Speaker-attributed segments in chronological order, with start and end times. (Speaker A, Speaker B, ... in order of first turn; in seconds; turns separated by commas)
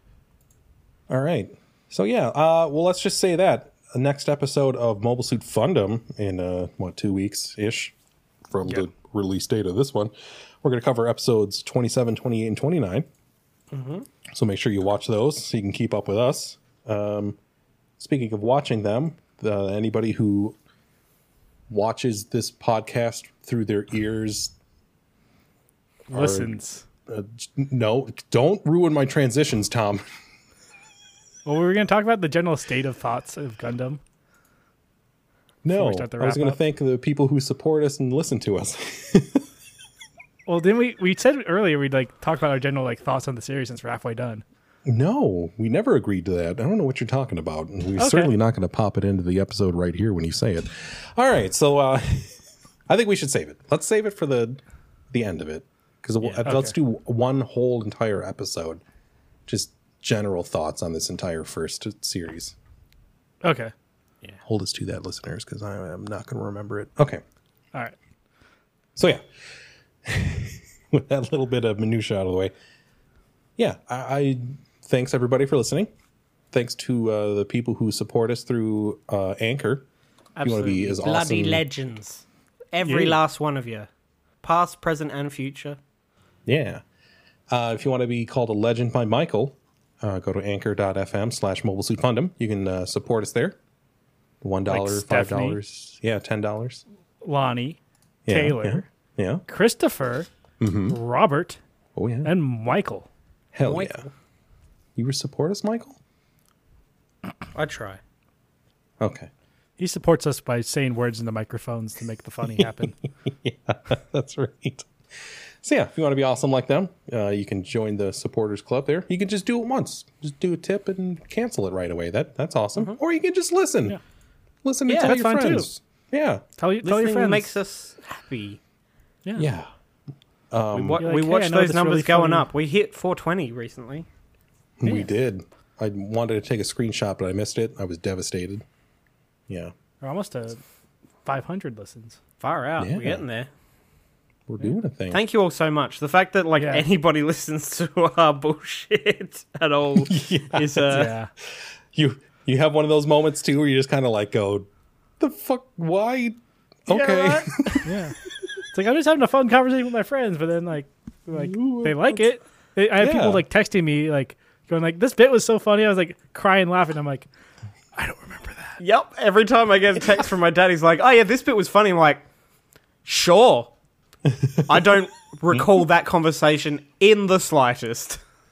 Speaker A: 1.1-7.9, Speaker A: 8.5-13.1, Speaker B: 13.7-14.1, Speaker A: 14.3-17.4, Speaker A: 18.0-20.6, Speaker A: 21.7-24.5, Speaker C: 26.1-26.8, Speaker A: 26.1-26.5, Speaker A: 27.1-30.0, Speaker C: 31.4-34.0, Speaker A: 35.6-39.4, Speaker C: 35.7-36.6, Speaker C: 40.5-44.4, Speaker A: 44.9-52.3, Speaker C: 48.0-48.3, Speaker A: 52.9-54.6, Speaker A: 55.1-58.8, Speaker C: 56.4-56.7, Speaker A: 59.5-62.5, Speaker C: 63.4-63.7, Speaker A: 64.4-67.2, Speaker A: 69.0-69.2, Speaker A: 70.0-72.5, Speaker A: 73.6-75.9, Speaker A: 76.5-79.8, Speaker B: 80.3-83.9, Speaker A: 80.4-81.6, Speaker C: 82.9-83.2, Speaker B: 84.4-85.8, Speaker A: 86.5-86.8, Speaker A: 87.5-93.6, Speaker A: 94.4-96.8, Speaker C: 94.7-95.6, Speaker C: 97.2-98.9, Speaker A: 98.2-99.5, Speaker C: 99.5-100.3, Speaker A: 100.6-101.0, Speaker C: 100.9-101.6, Speaker A: 102.0-102.3, Speaker C: 102.2-103.1, Speaker A: 103.5-104.1, Speaker B: 103.6-104.0, Speaker A: 105.0-106.0, Speaker B: 107.5-108.0, Speaker A: 109.0-109.3, Speaker C: 109.8-113.0, Speaker A: 113.2-114.9, Speaker A: 115.6-124.0, Speaker A: 124.6-126.4, Speaker C: 124.9-125.7, Speaker C: 126.6-127.5, Speaker B: 126.8-128.6, Speaker A: 129.3-129.7, Speaker A: 130.5-131.0, Speaker B: 130.7-134.1, Speaker C: 131.0-132.5, Speaker A: 134.8-138.6, Speaker C: 134.8-135.1, Speaker C: 140.0-140.6, Speaker C: 141.2-142.2, Speaker B: 142.4-143.5, Speaker A: 142.8-143.2, Speaker A: 144.5-145.2, Speaker B: 145.1-151.1, Speaker C: 146.6-146.8, Speaker A: 150.1-151.1, Speaker C: 150.9-151.3, Speaker A: 151.9-154.7, Speaker A: 155.2-157.9, Speaker C: 156.9-158.1, Speaker C: 158.7-167.3, Speaker A: 161.3-162.2, Speaker A: 163.0-163.4, Speaker C: 167.9-168.8, Speaker B: 168.8-172.2, Speaker B: 173.0-173.7, Speaker A: 174.3-174.7, Speaker B: 174.7-178.2